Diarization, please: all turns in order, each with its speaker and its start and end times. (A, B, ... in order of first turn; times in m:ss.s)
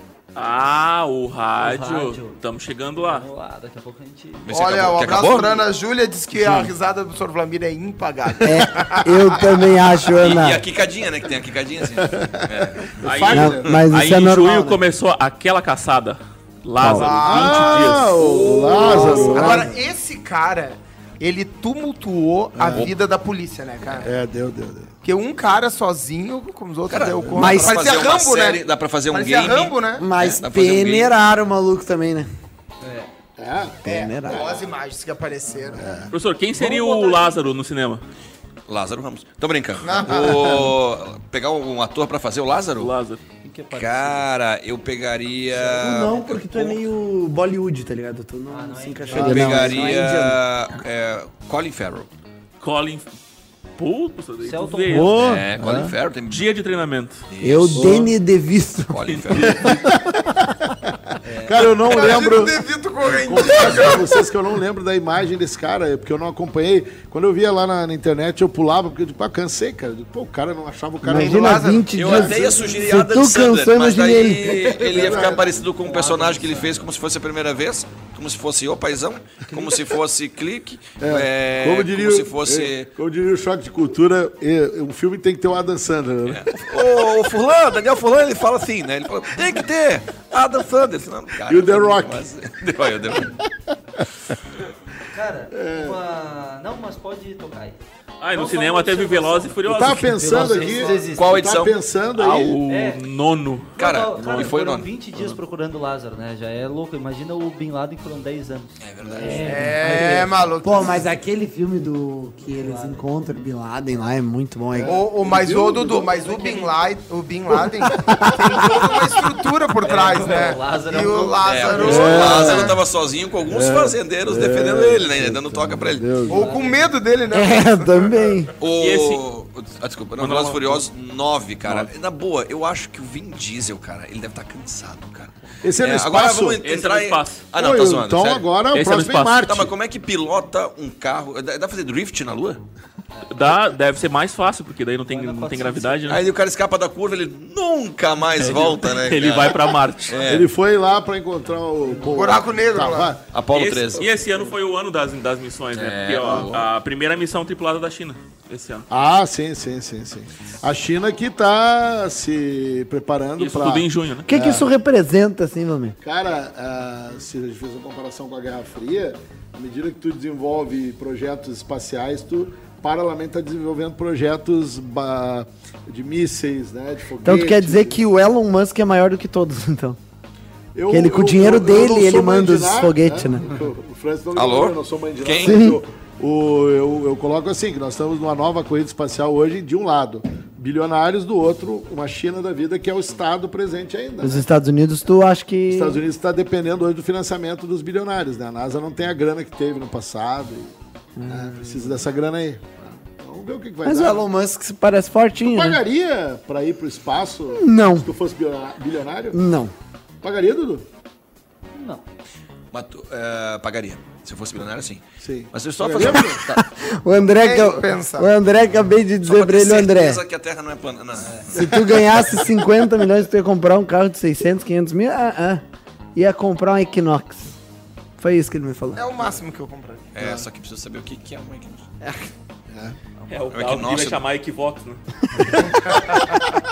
0:00.3-0:03.2 A
0:01.6-0:02.4 B
0:03.0-0:04.4 B
0:04.4-0:05.6 C
0:04.5-0:09.7 D
0:08.4-0:10.6 E
0:10.2-0:13.8 C
0:12.0-0:13.8 F
0:13.0-0:18.3 A
0:13.3-0:14.8 E
0:16.8-0:17.1 E
0:16.9-0:17.7 D
0:17.2-0:19.7 F
0:18.1-0:19.4 C
0:18.8-0:19.7 E
0:19.0-0:24.1 D
0:22.6-0:22.9 F
0:24.0-0:24.9 F
0:25.0-0:30.1 D
0:26.9-0:31.1 C
0:27.3-0:27.8 E
0:30.0-0:32.3 E
0:32.8-0:33.1 B
0:33.4-0:34.6 F
0:33.8-0:34.4 E
0:33.8-0:36.1 D
0:35.8-0:36.1 F
0:36.1-0:38.0 A
0:36.6-0:37.3 D
0:38.7-0:42.9 C
0:39.8-0:40.3 D
0:40.0-0:40.7 F
0:42.8-0:43.2 A
0:43.4-0:44.3 B
0:43.7-0:46.8 C
0:45.6-0:45.9 B
0:45.7-0:50.4 E
0:48.5-0:49.8 B
0:49.1-0:49.6 F
0:49.1-0:52.1 C
0:52.6-0:53.0 A
0:53.8-0:55.2 A
0:54.4-0:55.9 B
0:54.9-0:55.9 F
0:55.2-0:56.4 C
0:56.3-0:57.2 A
0:57.3-0:58.0 C
0:57.4-0:59.7 E
0:57.7-0:58.1 F
0:58.9-0:59.8 C
0:59.1-0:59.3 A
0:59.4-1:12.6 F
1:01.2-1:01.7 B
1:01.7-1:04.2 D
1:11.0-1:14.7 E
1:11.1-1:12.0 D
1:11.9-1:22.9 C
1:14.4-1:15.5 F
1:15.0-1:16.9 B
1:21.0-1:27.2 F
1:26.2-1:33.3 C
1:31.4-1:32.3 F
1:35.1-1:37.8 B
1:35.6-1:36.0 F
1:38.2-1:40.4 A
1:38.3-1:41.6 B
1:39.6-1:42.6 F
1:40.4-1:41.0 D
1:41.1-1:41.8 C
1:42.1-1:44.5 A
1:42.6-1:43.0 B
1:43.8-1:50.2 B
1:43.8-1:44.9 C
1:48.8-1:49.5 C
1:49.0-1:49.6 F
1:49.2-1:55.0 E
1:49.4-1:51.0 D
1:52.5-1:53.0 B
1:54.7-1:56.1 F
1:54.8-2:02.8 D
1:55.9-1:56.8 B
1:57.9-1:58.4 F
1:59.8-2:02.2 B
2:01.4-2:06.1 C
2:01.7-2:02.8 F
2:03.4-2:06.5 F
2:06.2-2:06.9 B
2:06.3-2:08.5 D
2:07.3-2:08.5 E
2:08.6-2:18.6 C
2:08.6-2:09.2 A
2:10.2-2:10.8 A
2:11.6-2:11.9 A
2:15.6-2:16.6 F
2:16.6-2:17.4 A
2:17.5-2:19.7 F
2:18.7-2:19.4 A
2:19.4-2:22.6 C
2:23.3-2:26.2 A
2:25.1-2:26.2 B
2:26.1-2:30.5 C
2:28.4-2:30.2 A
2:30.3-2:33.2 F
2:31.9-2:32.3 B
2:32.1-2:33.2 D
2:33.2-2:34.1 C
2:33.5-2:38.9 A
2:35.7-2:36.6 C
2:38.9-2:44.7 F
2:43.4-2:44.3 A
2:44.3-2:46.0 E
2:46.0-2:58.0 F
2:57.2-3:00.0 E
3:00.7-3:14.4 F
3:00.9-3:03.5 E
3:04.3-3:05.6 C
3:05.4-3:05.8 E
3:14.2-3:16.0 E
3:15.7-3:20.7 F
3:21.2-3:22.0 E
3:21.3-3:24.2 F
3:23.8-3:25.8 E
3:25.5-3:29.4 F
3:27.5-3:28.1 E
3:29.3-3:29.7 E
3:30.2-3:30.8 F
3:31.7-3:32.0 B
3:32.7-3:36.6 C
3:35.2-3:36.4 F
3:36.5-3:40.2 E
3:37.3-3:38.3 D
3:39.2-3:42.0 C
3:41.2-3:41.5 B
3:41.5-3:45.6 E
3:41.6-3:42.7 F
3:46.1-3:47.5 E
3:48.2-3:49.0 E
3:48.9-3:50.1 D
3:50.1-3:51.8 C
3:50.2-3:50.4 F
3:52.0-3:52.3 E
3:52.7-3:53.0 F
3:53.2-3:53.6 B
3:53.3-3:55.0 A
3:53.5-3:54.2 C
3:55.5-3:56.4 F